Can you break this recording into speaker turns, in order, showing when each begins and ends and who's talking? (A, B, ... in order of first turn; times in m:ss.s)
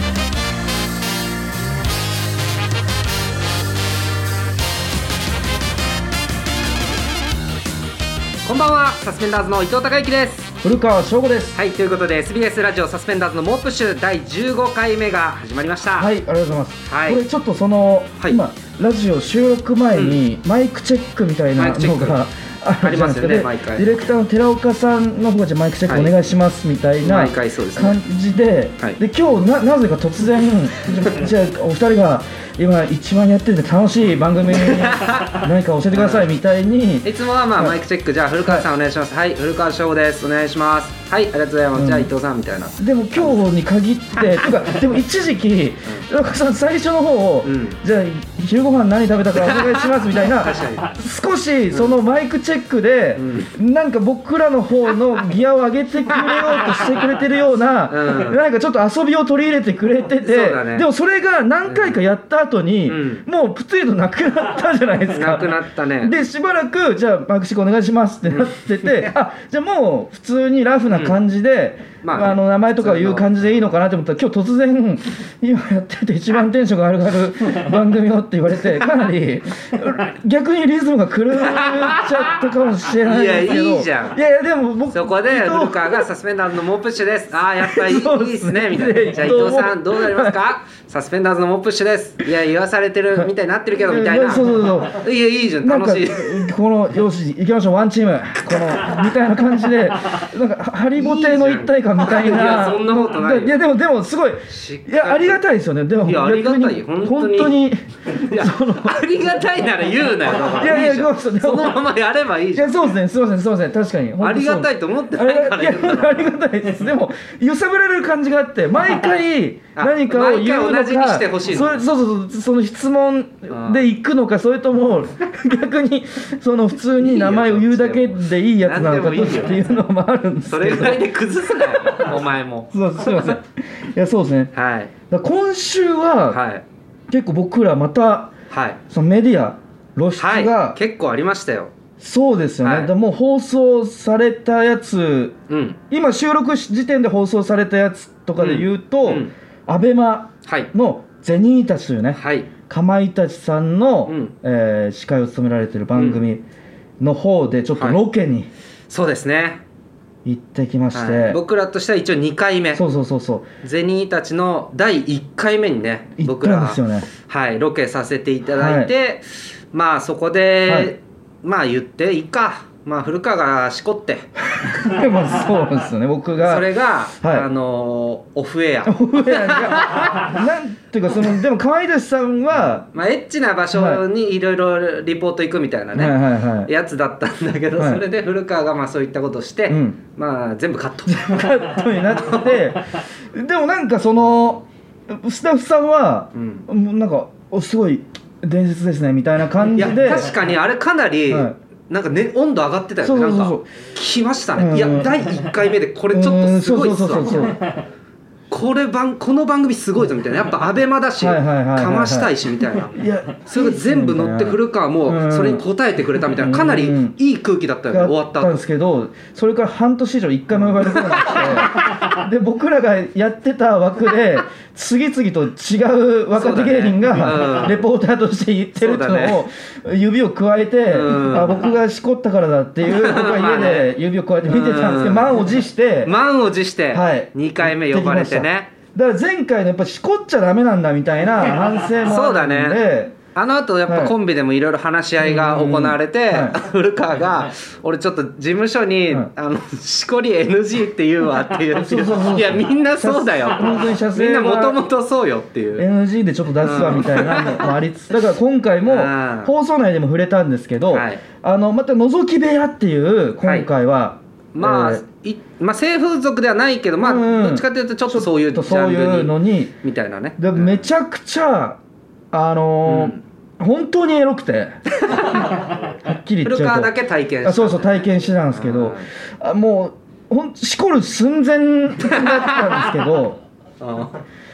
0:08.4-0:10.5 A
0:10.6-0:11.5 B
0:11.5-0:16.1 A
0:16.0-0:37.8 B
0:16.8-0:17.2 A
0:19.9-0:20.2 A
0:21.6-0:22.2 A
0:22.8-0:24.1 A
0:25.9-0:26.1 A
0:27.0-0:28.0 A
0:34.5-0:36.3 A
0:37.0-0:43.4 A
0:41.7-0:42.1 B
0:42.8-1:26.1 B
0:47.4-0:47.8 A
0:49.4-0:50.9 A
0:53.2-0:53.5 A
0:56.2-0:56.4 A
0:57.9-0:58.4 A
1:00.2-1:00.9 A
1:01.6-1:02.0 A
1:02.9-1:03.2 A
1:05.1-1:06.1 A
1:08.3-1:09.1 A
1:10.9-1:11.2 A
1:12.0-1:13.6 A
1:21.3-1:22.5 A
1:23.0-1:24.2 A
1:24.9-1:36.5 A
1:27.6-1:30.4 B
1:33.2-1:35.0 B
1:35.6-1:49.0 B
1:41.0-1:43.6 A
1:44.5-1:45.4 A
1:46.0-1:52.8 A
1:50.5-1:51.8 B
1:52.5-2:11.0 B
1:54.2-1:56.3 A
1:59.8-2:01.8 A
2:03.5-2:03.8 A
2:07.0-2:09.6 A
2:10.5-2:13.4 A
2:11.7-2:12.2 B
2:12.7-2:14.5 B
2:14.5-2:14.9 A
2:15.1-2:16.4 B
2:16.3-2:16.6 A
2:17.1-2:18.3 B
2:18.5-2:18.8 A
2:18.9-2:20.8 B
2:20.2-2:21.7 A
2:22.0-2:25.4 B
2:22.6-2:22.9 A
2:25.5-2:25.8 A
2:25.9-2:36.4 B
2:28.4-2:29.3 A
2:32.1-2:32.5 A
2:34.0-2:34.3 A
2:36.0-2:36.2 A
2:37.0-2:38.5 B
2:38.9-2:39.6 A
2:40.2-2:41.4 B
2:40.9-2:42.8 A
2:42.7-2:43.5 B
2:43.6-2:54.3 A
2:46.2-2:47.1 B
2:48.5-2:48.9 B
2:50.6-2:50.9 B
2:54.5-2:57.5 B
2:56.4-3:00.4 A
2:58.8-3:02.9 B
3:02.9-3:12.6 A
3:03.7-3:04.0 B
3:05.9-3:06.7 B
3:07.8-3:08.0 B
3:09.7-3:10.0 B
3:11.1-3:20.3 B
3:16.3-3:16.6 A
3:19.7-3:27.6 A
3:21.3-3:21.6 B
3:23.0-3:23.6 B
3:24.6-3:25.2 B
3:26.1-3:27.6 B
3:28.5-3:38.6 A
3:31.2-3:35.6 B
3:36.2-3:37.2 B
3:37.9-3:56.1 B
3:40.6-3:42.0 A
3:46.3-3:47.9 A
3:48.8-3:49.4 A
3:50.9-3:51.7 A
3:52.8-3:53.9 A
3:54.5-3:55.4 A
3:56.0-3:58.7 A
3:56.9-4:03.2 B
4:02.0-4:02.8 A
4:03.3-4:15.8 A
4:03.8-4:04.1 B
4:05.2-4:06.6 B
4:11.7-4:14.8 B
4:15.8-4:25.0 B
4:16.6-4:17.7 A
4:18.8-4:19.5 A
4:20.9-4:21.2 A
4:23.4-4:23.7 A
4:24.5-4:30.9 A
4:27.0-4:29.7 B
4:30.4-4:31.8 B
4:32.3-4:35.4 B
4:32.8-4:33.2 A
4:35.0-4:35.7 A
4:36.0-4:43.4 B
4:36.4-4:39.1 A
4:42.1-4:42.7 A
4:43.8-4:44.2 A